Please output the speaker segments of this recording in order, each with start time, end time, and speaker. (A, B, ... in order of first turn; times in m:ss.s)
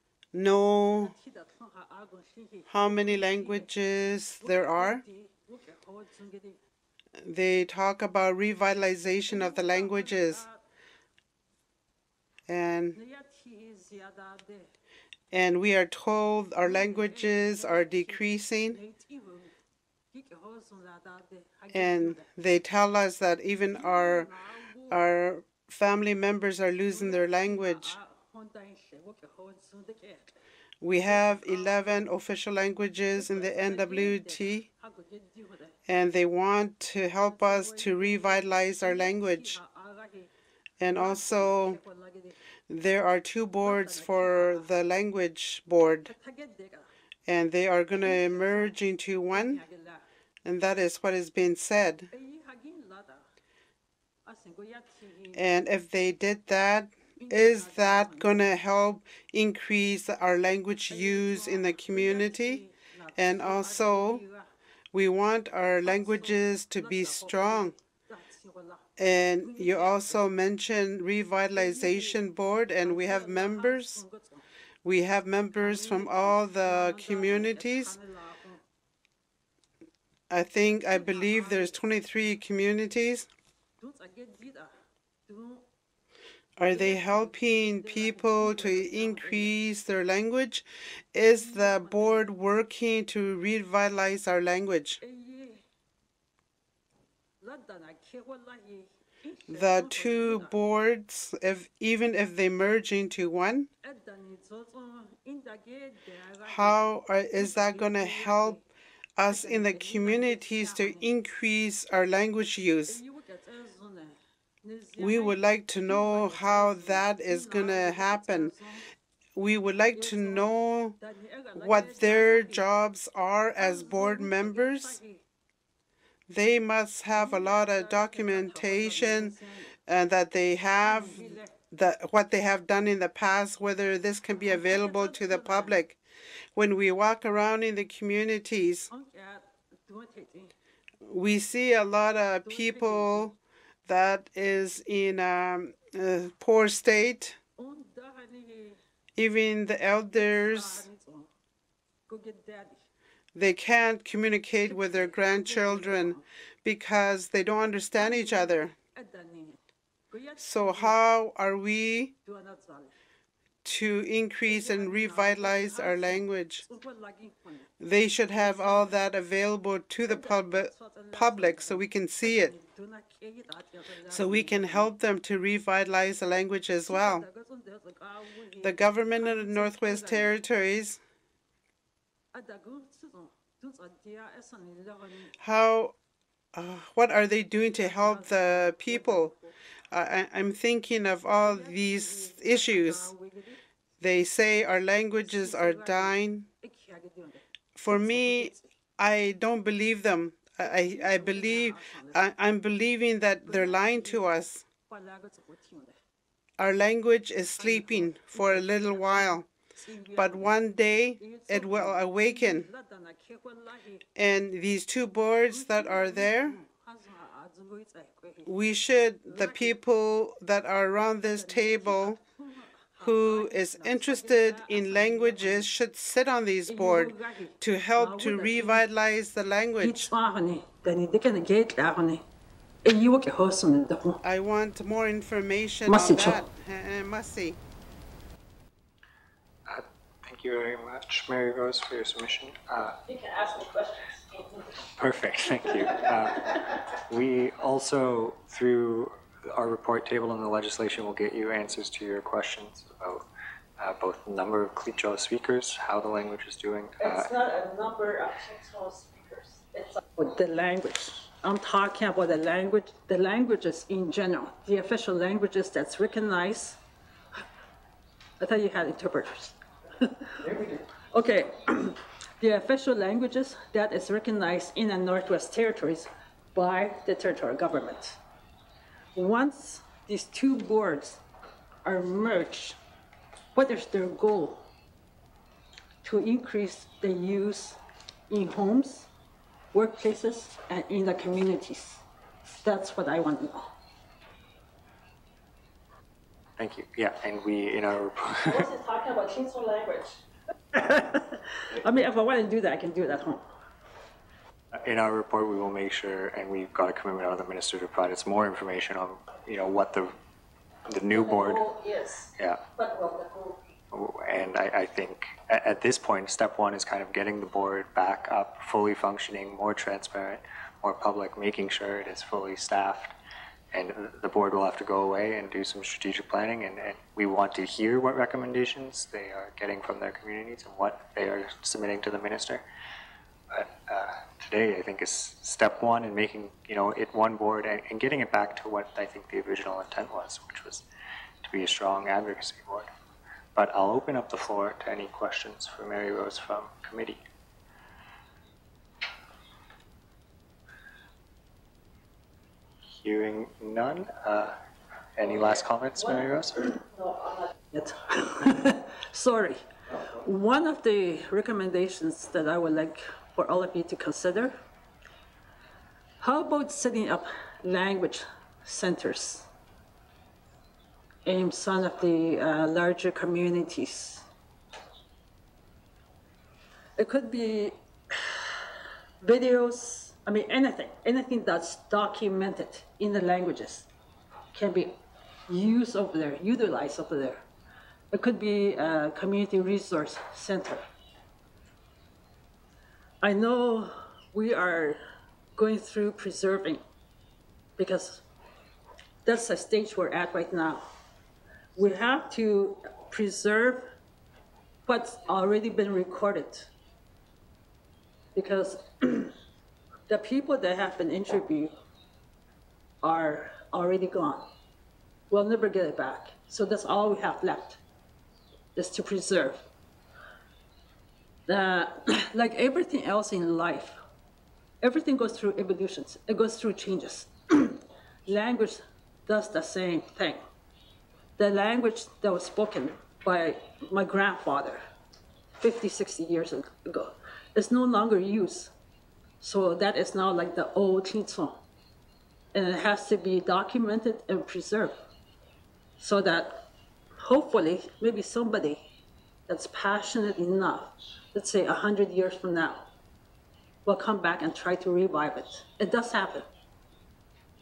0:00.3-0:01.1 A
0:01.0-0:03.7 B
0:02.7-0:05.0 A
0:04.4-0:06.6 B
0:07.2-0:10.4 A
0:09.3-0:10.6 B
0:12.5-0:13.0 A
0:12.9-0:14.7 B
0:15.3-0:18.8 A
0:16.6-0:19.5 B
0:20.1-0:22.3 B
0:21.7-0:24.3 A
0:23.5-0:25.0 B
0:24.9-0:28.0 A
0:26.9-0:30.3 B
0:30.8-0:34.6 A
0:31.0-0:32.0 B
0:33.1-0:35.8 B
0:35.9-0:39.6 A
0:37.2-0:40.3 B
0:40.8-0:41.8 A
0:40.9-0:42.4 B
0:42.7-0:46.1 A
0:43.6-0:44.7 B
0:46.0-0:46.9 B
0:47.3-0:49.6 A
0:48.0-0:48.8 B
0:49.3-0:50.0 B
0:50.4-0:52.1 A
0:52.1-0:53.2 B
0:54.2-0:55.6 B
0:55.3-1:02.6 A
0:57.2-0:58.5 B
1:00.9-1:04.5 B
1:03.2-1:04.2 A
1:04.9-1:07.7 A
1:05.8-1:10.4 B
1:09.0-1:14.0 A
1:11.5-1:12.3 B
1:12.8-1:14.4 B
1:14.8-1:17.9 A
1:15.6-1:18.6 B
1:20.3-1:23.3 A
1:20.6-1:21.8 B
1:23.8-1:24.7 B
1:25.3-1:25.6 B
1:26.6-1:35.0 A
1:26.6-1:29.6 B
1:31.3-1:32.3 B
1:35.0-1:35.6 B
1:37.4-1:40.6 B
1:39.5-1:43.7 A
1:43.8-1:48.6 B
1:46.4-1:48.6 A
1:49.2-1:53.0 A
1:49.3-1:51.1 B
1:52.9-1:58.8 B
1:55.0-1:58.5 A
1:59.4-2:01.0 A
1:59.9-2:02.7 B
2:01.5-2:05.0 A
2:03.6-2:05.2 B
2:06.3-2:09.3 A
2:07.1-2:09.7 B
2:09.9-2:16.0 A
2:10.8-2:11.6 B
2:14.4-2:15.9 B
2:16.6-2:18.9 A
2:18.9-2:20.5 B
2:21.0-2:27.4 A
2:22.4-2:23.3 B
2:27.6-2:28.8 B
2:29.2-2:30.9 A
2:30.1-2:31.3 B
2:32.1-2:32.8 B
2:33.3-2:38.7 A
2:34.6-2:36.2 B
2:37.9-2:39.6 B
2:40.1-2:41.0 B
2:40.4-2:42.1 A
2:42.2-2:42.9 B
2:43.6-2:46.6 A
2:44.4-2:47.7 B
2:47.8-2:52.5 A
2:48.3-2:49.0 B
2:50.0-2:54.9 B
2:54.1-2:57.2 A
2:56.9-3:00.5 B
2:58.6-3:01.0 A
3:02.3-3:05.3 B
3:05.4-3:05.9 A
3:06.5-3:09.3 A
3:07.7-3:09.6 B
3:09.9-3:13.1 A
3:11.4-3:13.6 B
3:14.0-3:16.4 A
3:15.2-3:18.7 B
3:17.8-3:24.6 A
3:20.5-3:22.3 B
3:23.4-3:24.3 B
3:24.9-3:25.9 B
3:26.6-3:29.5 A
3:27.6-3:30.5 B
3:30.2-3:32.7 A
3:31.2-3:34.0 B
3:34.2-3:36.6 A
3:35.4-3:38.5 B
3:38.4-3:42.2 A
3:39.2-3:39.8 B
3:41.2-3:45.7 B
3:43.0-3:50.1 A
3:46.6-3:48.9 B
3:49.8-3:52.2 B
3:52.8-3:54.2 B
3:54.2-3:57.6 A
3:55.9-3:56.4 B
3:59.7-4:03.0 C
4:03.0-4:04.7 B
4:05.0-4:06.5 C
4:07.1-4:13.3 C
4:13.8-4:17.3 C
4:17.0-4:26.8 B
4:28.4-4:38.2 B
4:39.1-4:41.2 B
4:41.8-4:42.8 B
4:43.6-4:44.6 B
4:46.0-4:47.8 B
4:48.3-4:49.1 B
4:49.7-4:52.0 B
4:52.6-4:53.7 B
4:56.6-4:58.7 C
4:58.4-5:00.2 B
5:00.7-5:03.4 B
5:04.7-5:10.1 C
5:10.9-5:11.7 C
5:11.1-5:13.6 B
5:12.4-5:12.6 C
5:13.9-5:23.1 C
5:23.7-5:32.6 C
5:33.5-5:40.8 C
5:41.4-5:42.9 C
5:43.6-5:47.2 C
5:53.0-5:54.6 C
5:55.2-5:56.8 C
5:57.7-6:04.6 B
6:06.2-6:09.5 B
6:11.2-6:14.2 B
6:17.0-6:18.6 B
6:19.2-6:23.9 B
6:24.5-6:27.4 B
6:28.1-6:30.8 B
6:33.2-6:35.0 B
6:35.6-6:36.8 B
6:37.8-6:38.2 B
6:39.2-6:40.8 B
6:41.7-6:43.9 B
6:44.9-6:46.7 B
6:48.3-6:49.3 B
6:50.1-6:51.7 B
6:53.0-6:54.5 B
6:55.3-6:57.8 B
6:58.7-6:59.6 B
7:01.5-7:04.0 B
7:04.8-7:10.4 B
7:11.4-7:14.8 B
7:15.6-7:18.7 B
7:19.4-7:21.6 B
7:22.5-7:25.0 B
7:26.0-7:26.7 B
7:27.2-7:28.9 B
7:29.5-7:32.9 B
7:33.8-7:36.5 B